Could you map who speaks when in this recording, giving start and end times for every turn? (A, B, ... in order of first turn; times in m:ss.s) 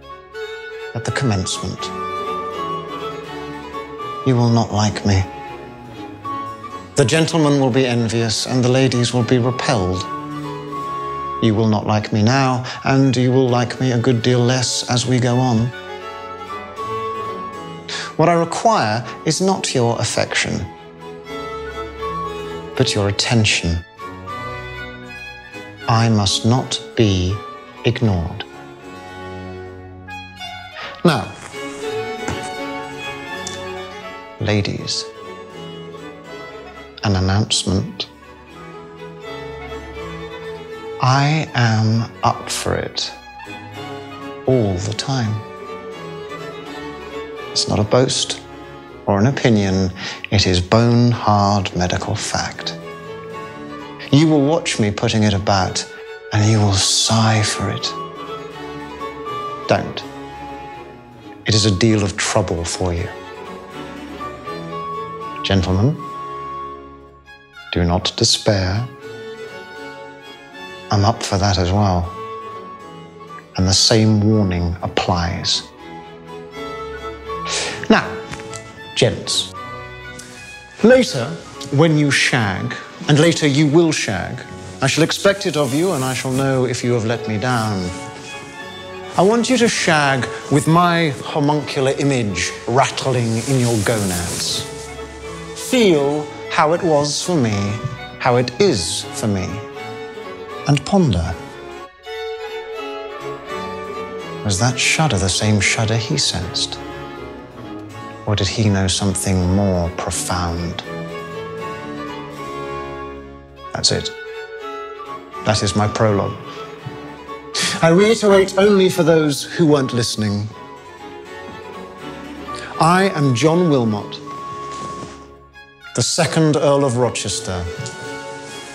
0:00.9-0:01.9 A
0:04.2-0:05.3 A
0:07.0-0:10.1 A
0:11.4-0:15.7 A
0:18.2-0:20.7 A
0:22.8-0:23.8 A
0:25.9-0:28.5 A
0:31.0-0:31.3 A
0:34.4-0:35.1 A
0:37.0-0:38.1 A
0:41.0-0:43.2 A
0:44.4-0:45.4 A
0:47.5-0:48.4 A
0:49.0-0:52.8 A
0:54.1-0:58.0 A
0:59.7-1:00.1 A
1:01.4-1:03.1 A
1:05.4-1:06.0 A
1:07.7-1:08.9 A
1:10.9-1:12.2 A
1:13.5-1:15.7 A
1:17.8-1:18.2 A
1:18.9-1:19.5 A
1:20.8-1:27.9 A
1:29.2-1:34.7 A
1:35.5-1:39.7 A
1:40.6-1:41.4 A
1:44.4-1:46.8 A
1:48.2-1:50.8 A
1:53.7-1:54.1 A
1:55.4-1:56.4 A
1:57.7-2:00.5 A
2:02.8-2:04.2 A
2:05.9-2:07.7 A